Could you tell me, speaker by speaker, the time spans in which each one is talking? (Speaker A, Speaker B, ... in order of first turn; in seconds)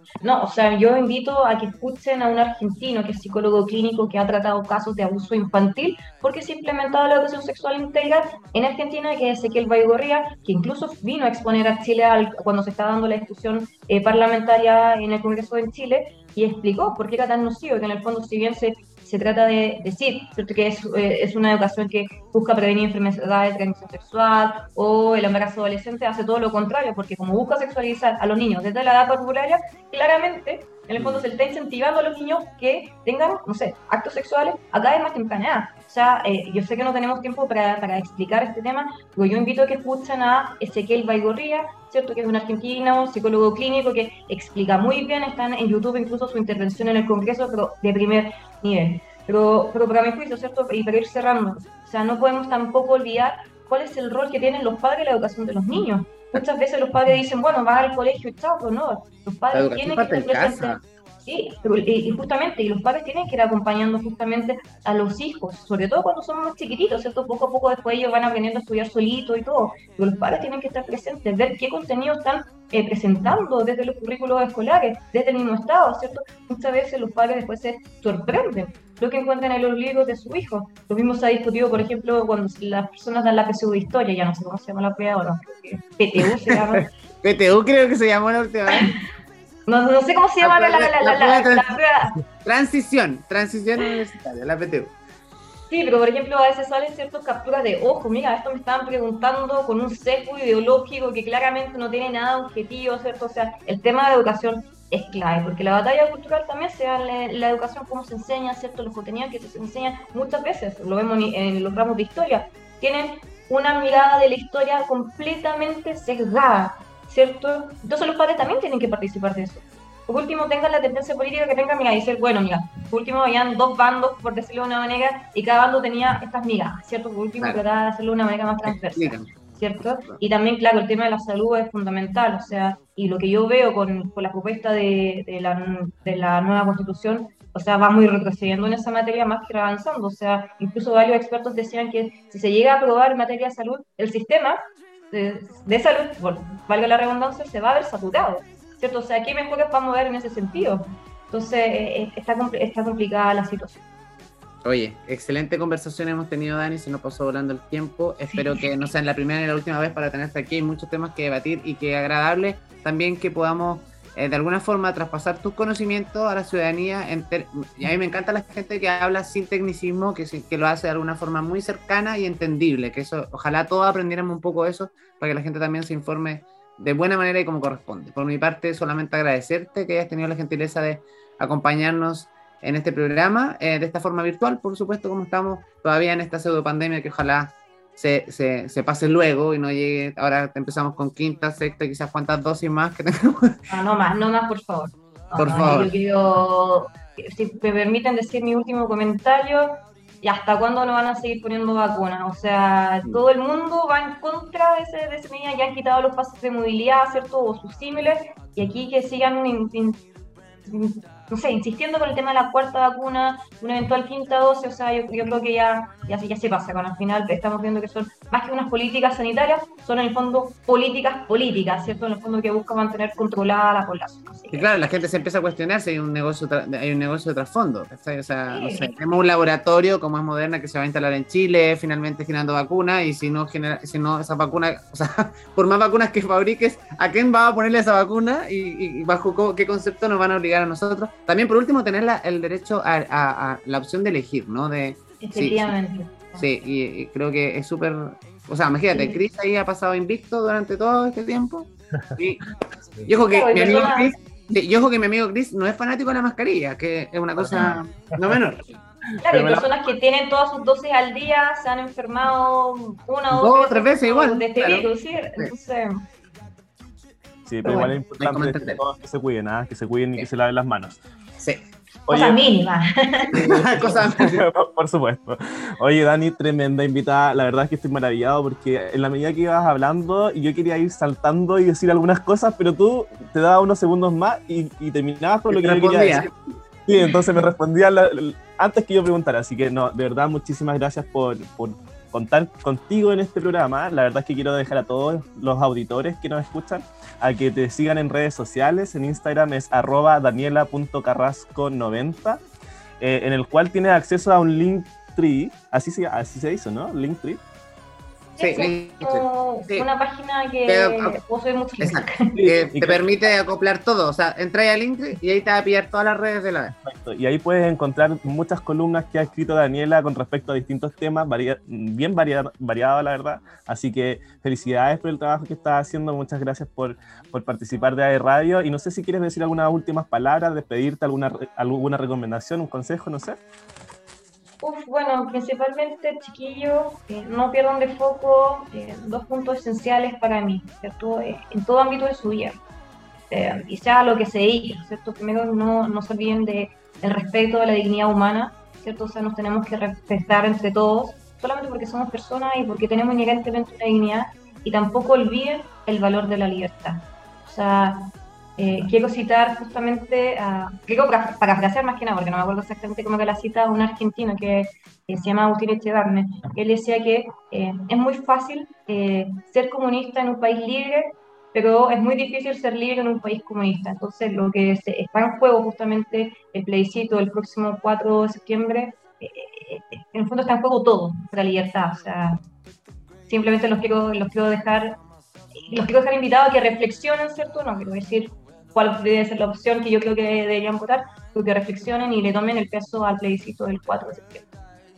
Speaker A: 0.2-86.9, 89.7-92.1, 95.7-144.6, 145.1-153.8, 193.7-210.0, 210.6-224.7, 228.5-228.9, 245.2-246.4, 248.9-249.2, 253.3-254.1, 259.2-266.0, 267.6-267.9, 272.1-273.4, 308.4-312.4, 334.6-342.6, 343.3-382.4, 383.3-384.9, 385.6-394.5
Speaker B: 31.0-31.2, 59.5-60.8, 86.5-89.0, 90.4-91.8, 92.4-94.9, 128.6-129.3, 154.6-193.6, 195.3-195.9, 224.5-245.7, 246.4-252.4, 253.0-258.6, 263.3-265.5, 268.2-268.8, 273.3-274.4, 285.5-286.3, 308.4-309.9, 310.7-311.2, 311.8-316.7
Speaker C: 259.3-259.6, 267.5-271.0, 272.1-272.4, 273.4-286.2, 286.9-302.4, 303.0-307.4, 312.3-313.0, 316.8-333.4